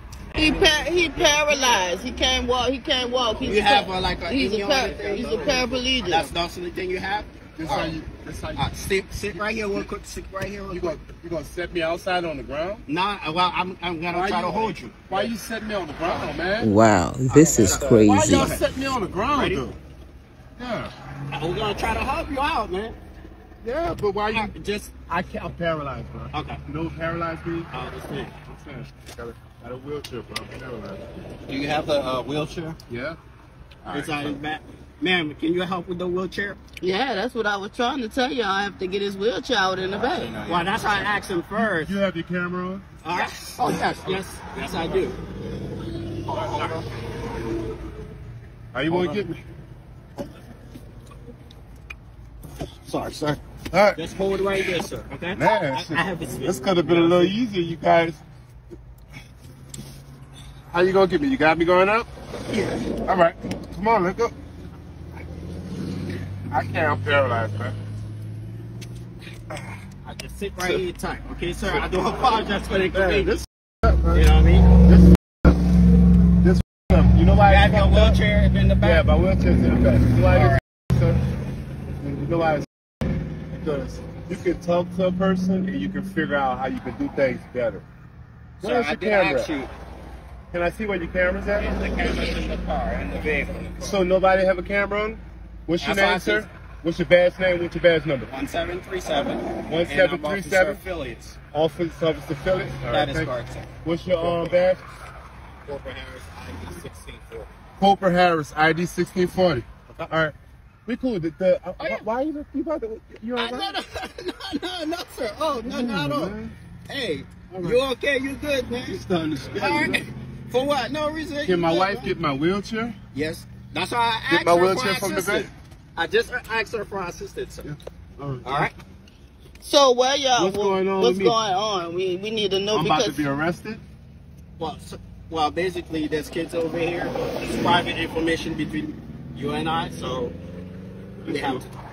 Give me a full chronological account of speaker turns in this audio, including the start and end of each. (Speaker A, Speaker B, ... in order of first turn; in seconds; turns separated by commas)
Speaker A: 0.3-6.3, Speaker B: 3.5-8.0, Speaker C: 7.6-8.7, Speaker B: 8.6-11.0, Speaker C: 9.3-9.8, Speaker C: 10.7-12.8, Speaker B: 12.9-15.3, Speaker C: 14.1-16.7, Speaker D: 16.6-18.6, Speaker B: 17.3-18.6, Speaker C: 17.3-19.8, Speaker B: 19.3-19.6, Speaker C: 20.6-20.9, Speaker B: 21.3-23.0, Speaker C: 23.6-24.5, Speaker B: 24.3-25.0, Speaker C: 25.1-27.7, Speaker B: 26.3-26.6, Speaker B: 27.7-28.4, Speaker C: 28.4-31.0, Speaker B: 31.5-32.8, Speaker C: 32.9-33.2, Speaker C: 33.8-34.4, Speaker B: 33.9-36.6, Speaker A: 36.8-40.4, Speaker B: 40.4-41.9, Speaker C: 41.5-42.8, Speaker B: 43.0-45.2, Speaker C: 43.6-44.2, Speaker B: 46.2-46.9, Speaker C: 46.3-46.8, Speaker C: 48.7-49.4, Speaker C: 52.9-54.0, Speaker B: 54.0-57.3, Speaker C: 55.4-58.2, Speaker C: 60.7-62.1, Speaker B: 62.5-62.8, Speaker C: 63.1-64.3, Speaker C: 66.5-67.8, Speaker B: 70.0-73.4, Speaker C: 72.9-74.3, Speaker B: 74.1-74.7, Speaker C: 74.9-75.5, Speaker C: 76.4-78.2, Speaker B: 77.5-79.1, Speaker C: 78.8-81.2, Speaker B: 80.2-80.6, Speaker C: 82.0-82.7, Speaker C: 83.5-87.8, Speaker C: 88.6-89.5, Speaker B: 88.6-89.7, Speaker C: 90.5-91.7, Speaker B: 91.6-94.0, Speaker C: 93.8-98.3, Speaker B: 95.8-96.5, Speaker B: 98.3-101.4, Speaker C: 99.7-100.8, Speaker C: 101.5-103.3, Speaker B: 102.9-104.7, Speaker C: 103.8-104.8, Speaker B: 105.7-107.5, Speaker C: 107.8-110.3, Speaker C: 110.9-113.8, Speaker B: 113.4-116.4, Speaker C: 115.6-116.5, Speaker B: 116.9-122.2, Speaker C: 117.5-117.8, Speaker C: 118.8-120.0, Speaker C: 121.4-123.0, Speaker B: 123.1-127.7, Speaker C: 124.3-125.5, Speaker C: 127.6-128.7, Speaker B: 128.4-128.7, Speaker A: 129.6-133.2, Speaker C: 130.3-131.4, Speaker C: 132.7-133.8, Speaker B: 134.6-140.3, Speaker C: 141.3-141.6, Speaker B: 141.3-141.7